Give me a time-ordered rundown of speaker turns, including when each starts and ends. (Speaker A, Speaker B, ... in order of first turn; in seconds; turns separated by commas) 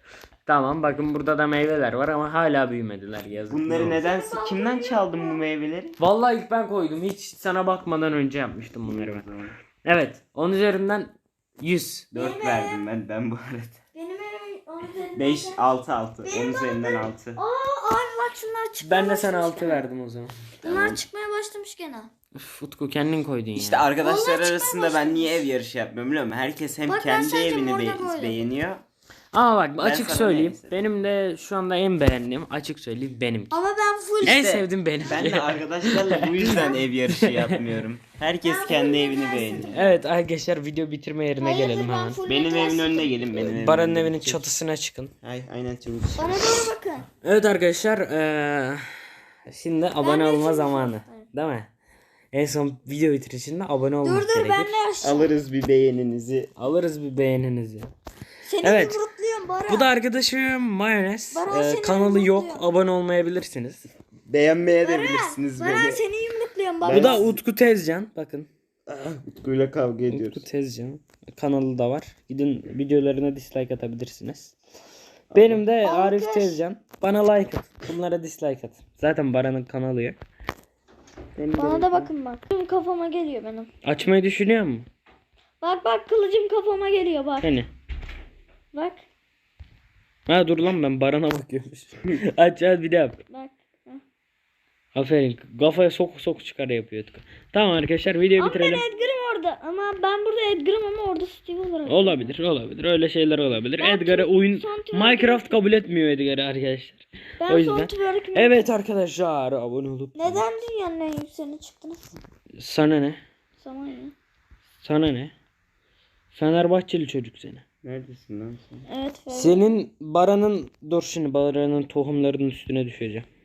Speaker A: 0.5-4.0, Speaker B: 3.5-6.0, Speaker C: 3.9-5.4, Speaker A: 6.0-9.3, Speaker B: 8.8-9.6, Speaker A: 9.8-12.1, Speaker B: 12.1-13.8, Speaker C: 12.1-12.8, Speaker C: 13.9-15.6, Speaker B: 15.1-17.4, Speaker C: 16.2-19.8, Speaker A: 18.8-20.4, Speaker B: 20.6-21.0, Speaker C: 20.6-22.1, Speaker A: 22.3-23.9, Speaker B: 23.5-28.8, Speaker C: 23.9-25.4, Speaker C: 26.9-28.4, Speaker A: 29.3-33.6, Speaker B: 29.8-30.9, Speaker C: 33.5-34.5, Speaker A: 34.2-37.7, Speaker B: 34.2-39.8, Speaker C: 38.4-40.0, Speaker A: 39.7-42.2, Speaker C: 41.4-43.4, Speaker B: 42.2-44.5, Speaker A: 43.5-45.1, Speaker B: 45.2-46.7, Speaker C: 46.1-47.1, Speaker A: 47.2-51.7, Speaker C: 50.0-51.2, Speaker A: 52.3-54.8, Speaker C: 54.0-55.3, Speaker B: 55.0-56.5, Speaker A: 56.6-57.9, Speaker C: 58.4-59.9, Speaker A: 58.6-59.0, Speaker A: 59.7-63.9, Speaker C: 61.3-62.6, Speaker B: 64.2-66.0, Speaker C: 64.8-67.2, Speaker B: 66.8-67.4, Speaker A: 66.9-68.5, Speaker B: 68.9-70.4, Speaker A: 70.1-74.5, Speaker B: 75.3-75.6, Speaker A: 75.3-80.2, Speaker C: 75.8-76.6, Speaker B: 81.3-82.1, Speaker C: 81.5-83.7, Speaker A: 83.8-84.9, Speaker C: 85.6-87.5, Speaker A: 87.4-87.7, Speaker C: 88.7-89.0, Speaker A: 90.3-93.2, Speaker C: 93.3-94.0, Speaker A: 94.9-98.8, Speaker C: 98.4-102.3, Speaker A: 101.8-110.6, Speaker C: 103.8-105.6, Speaker C: 107.4-108.7, Speaker C: 110.1-112.1, Speaker A: 112.6-113.2, Speaker C: 113.6-114.1, Speaker A: 114.8-115.3, Speaker A: 116.3-117.6, Speaker B: 117.8-118.8, Speaker C: 118.9-119.8, Speaker A: 119.3-123.3